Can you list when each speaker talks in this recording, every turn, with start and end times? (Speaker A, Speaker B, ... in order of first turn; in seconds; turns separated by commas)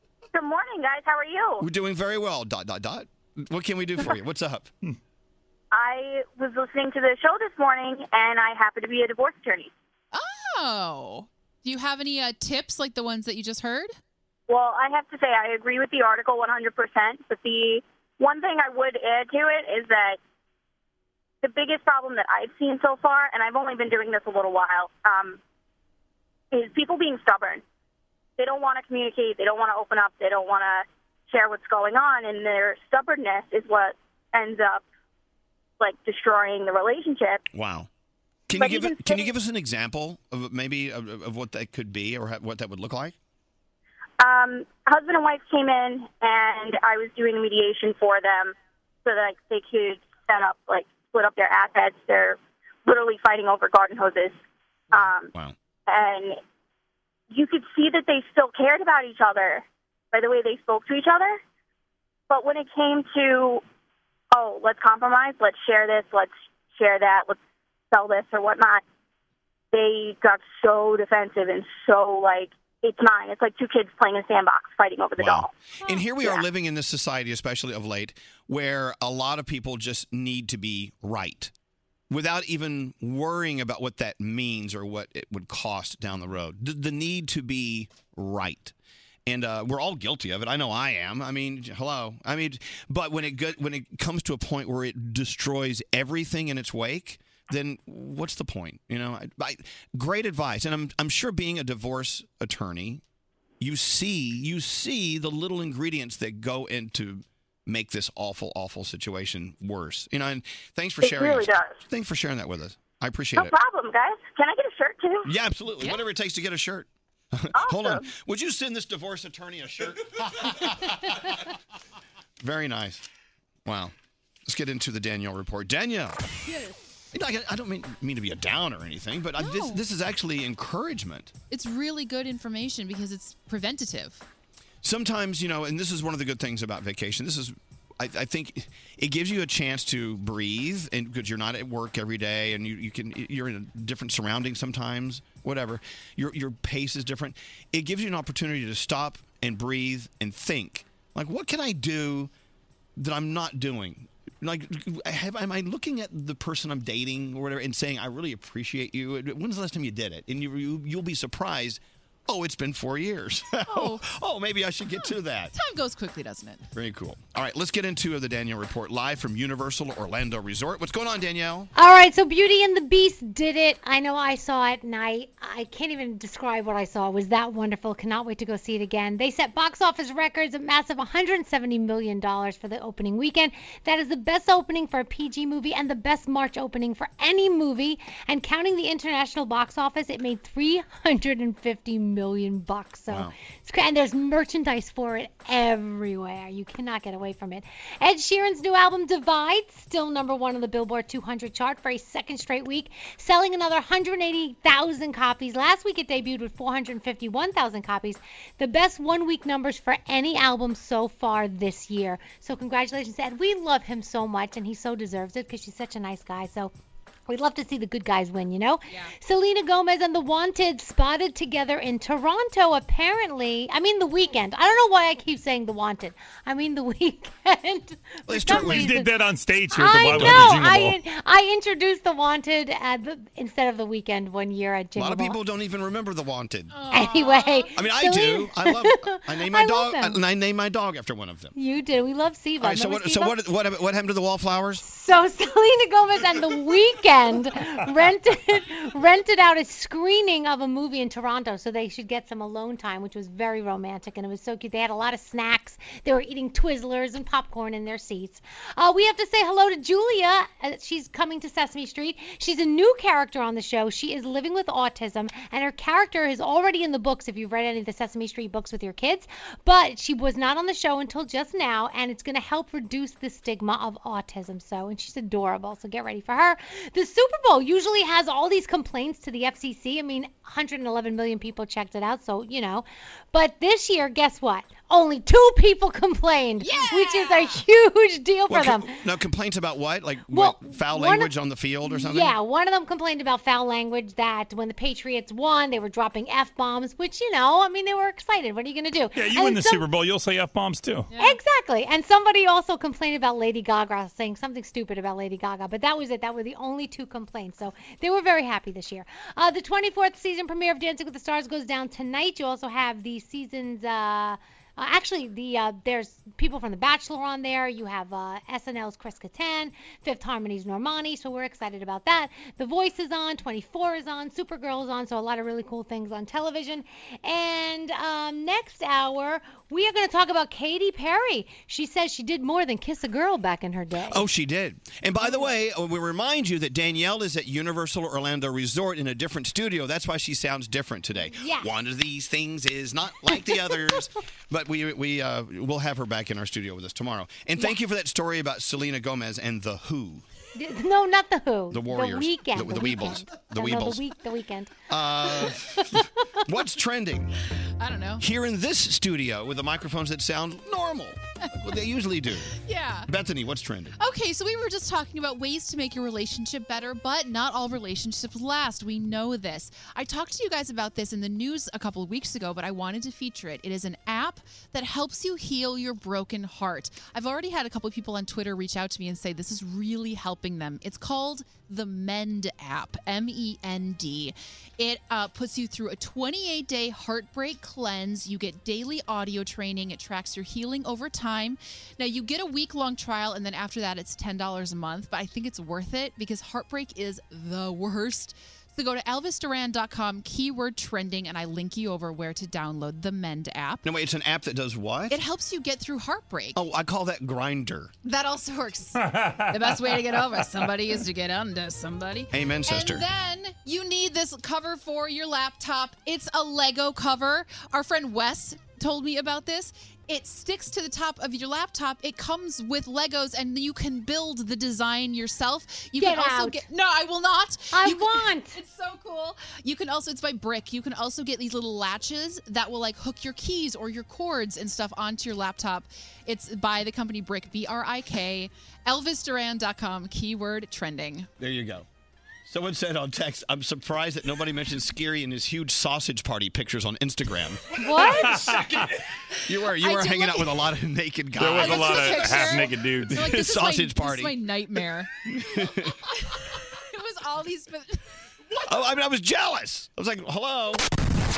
Speaker A: 0.3-1.6, Speaker B: 1.6-4.7, Speaker A: 5.7-9.7, Speaker C: 10.1-14.0, Speaker A: 14.5-20.2, Speaker A: 21.4-25.4, Speaker A: 26.5-27.6, Speaker A: 28.4-34.8, Speaker A: 35.8-37.4, Speaker B: 37.5-37.9, Speaker B: 38.5-43.1, Speaker A: 38.5-39.3, Speaker A: 44.2-48.5, Speaker A: 49.0-54.4, Speaker A: 54.9-55.3, Speaker A: 55.9-56.4, Speaker A: 57.3-61.4, Speaker A: 62.3-63.6, Speaker A: 64.3-67.3, Speaker A: 67.9-68.8, Speaker A: 69.7-76.4, Speaker B: 75.2-81.5, Speaker B: 82.1-88.7, Speaker B: 89.2-103.0, Speaker B: 103.6-113.5, Speaker A: 111.0-111.8, Speaker A: 113.3-115.3, Speaker B: 115.2-120.7, Speaker A: 117.5-118.1, Speaker B: 122.4-123.0, Speaker B: 123.6-123.9, Speaker B: 124.5-126.2, Speaker B: 127.1-131.3, Speaker C: 129.4-129.8, Speaker C: 131.5-134.2, Speaker B: 134.8-152.3, Speaker B: 153.0-165.5, Speaker C: 163.7-164.1, Speaker C: 165.5-166.6, Speaker B: 166.7-171.7, Speaker D: 171.7-216.7, Speaker D: 217.3-229.1, Speaker B: 228.3-228.9, Speaker E: 228.5-231.0, Speaker D: 229.7-235.4, Speaker B: 230.1-230.6, Speaker B: 234.9-236.8, Speaker C: 236.7-237.8, Speaker D: 236.9-240.2, Speaker B: 237.7-241.5, Speaker D: 241.5-243.4, Speaker B: 242.6-244.8, Speaker D: 244.8-288.9, Speaker C: 286.6-287.6, Speaker B: 288.5-292.4, Speaker D: 290.3-291.3, Speaker D: 291.8-299.8, Speaker E: 299.1-301.1, Speaker C: 301.1-301.4, Speaker D: 301.2-334.2, Speaker B: 334.1-350.2, Speaker D: 335.2-335.5, Speaker D: 341.4-341.7, Speaker D: 350.5-354.8, Speaker B: 351.7-354.0, Speaker B: 354.9-357.3, Speaker C: 357.8-358.2, Speaker B: 358.2-362.5, Speaker C: 362.6-363.1, Speaker B: 363.1-364.0, Speaker C: 364.0-403.8, Speaker B: 403.8-405.2, Speaker C: 405.1-406.6, Speaker B: 406.5-407.9, Speaker C: 408.0-441.3, Speaker B: 412.3-413.1, Speaker D: 426.0-426.6, Speaker D: 427.7-428.6, Speaker B: 441.4-441.9, Speaker B: 442.4-447.6, Speaker D: 447.8-448.6, Speaker E: 448.3-448.6, Speaker B: 449.4-454.4, Speaker C: 449.7-450.6, Speaker E: 451.4-453.2, Speaker C: 451.5-455.1, Speaker B: 455.4-455.9, Speaker C: 456.9-458.0, Speaker B: 458.6-460.8